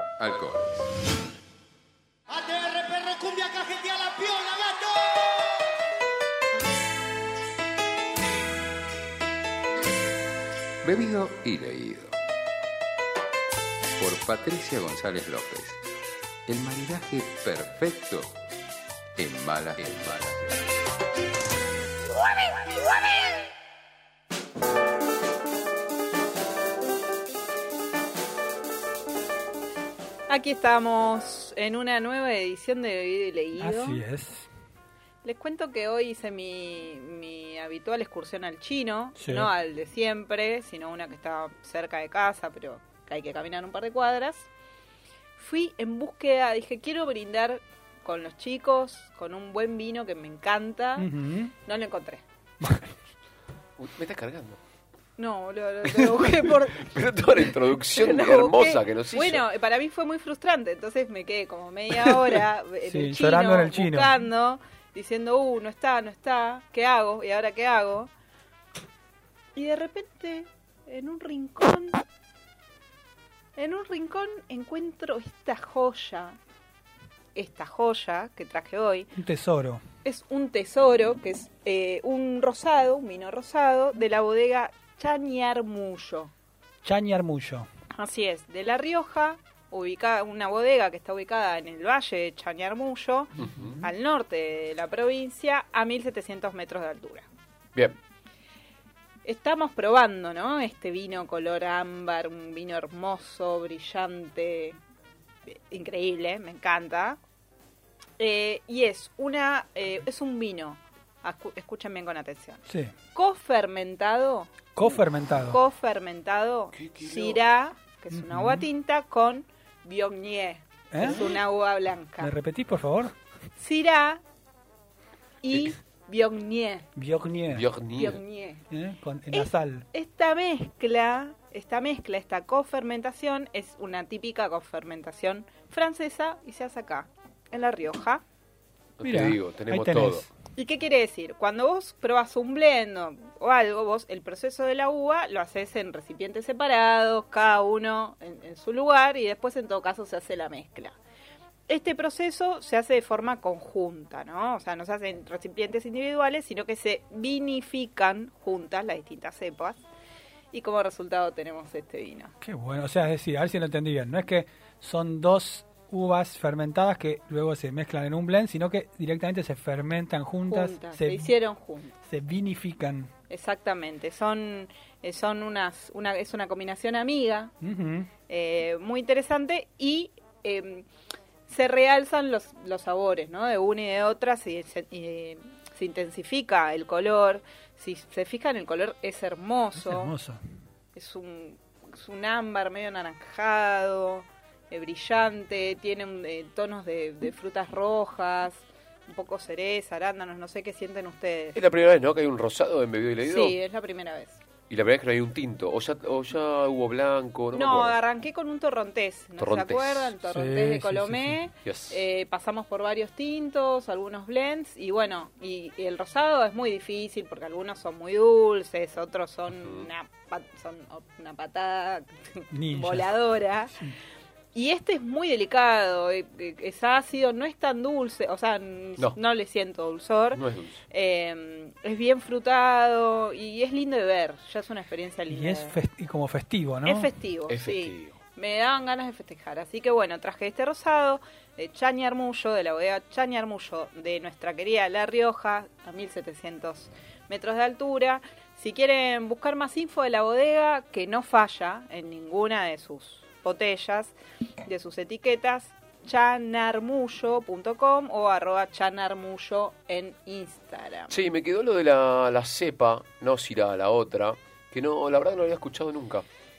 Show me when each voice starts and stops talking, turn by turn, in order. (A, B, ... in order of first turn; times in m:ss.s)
0:00.2-0:00.9 A
0:02.4-0:05.0 B
0:10.8-0:12.2 A
0:14.0-0:15.8 A
0:16.5-0:18.3 A
0:19.2-0:20.6 A
0:30.3-0:34.0 C
0:33.6-0:34.5 D
0:35.2-0:44.5 C
0:39.2-0:39.5 D
0:45.4-0:51.1 C
0:51.0-0:51.5 D
0:51.6-0:52.2 C
0:52.6-0:53.0 D
0:53.8-0:54.6 E
0:55.2-0:57.0 C
0:55.9-0:59.4 E
0:57.8-1:08.1 C
1:02.8-1:04.2 D
1:09.6-1:12.0 C
1:13.6-1:16.4 C
1:17.4-1:19.1 C
1:19.2-1:19.8 D
1:20.0-1:26.3 C
1:26.8-1:27.7 D
1:28.0-1:37.3 C
1:33.4-1:33.8 E
1:39.2-1:44.8 C
1:45.5-1:47.2 C
1:48.2-1:52.6 C
1:52.7-1:52.9 D
1:53.1-2:02.3 C
1:54.8-1:55.6 D
1:56.8-1:57.4 E
1:58.1-1:58.7 D
2:00.9-2:01.4 D
2:02.2-2:03.2 D
2:03.6-2:04.2 C
2:05.4-2:06.9 C
2:07.0-2:07.7 D
2:07.5-2:08.2 E
2:08.0-2:08.7 C
2:08.7-2:09.9 D
2:09.3-2:18.2 C
2:19.0-2:20.3 E
2:19.0-2:20.3 D
2:20.5-2:31.0 C
2:31.7-2:39.8 C
2:40.5-2:42.3 C
2:42.4-2:51.3 D
2:50.5-2:52.0 C
2:52.1-2:53.1 D
2:53.3-2:57.5 C
2:57.6-2:58.1 D
2:58.3-3:00.9 C
3:01.5-3:10.1 C
3:09.8-3:10.4 D
3:10.9-3:21.6 C
3:21.6-3:23.6 E
3:23.2-3:24.4 C
3:24.7-3:28.0 E
3:27.5-3:43.7 C
3:29.4-3:30.1 E
3:30.2-3:31.4 D
3:31.6-3:32.0 E
3:42.5-3:43.2 D
3:44.5-3:55.8 C
3:50.3-3:50.8 E
3:55.3-3:57.1 D
3:56.8-4:21.1 C
3:57.5-3:58.2 E
4:21.1-4:26.2 E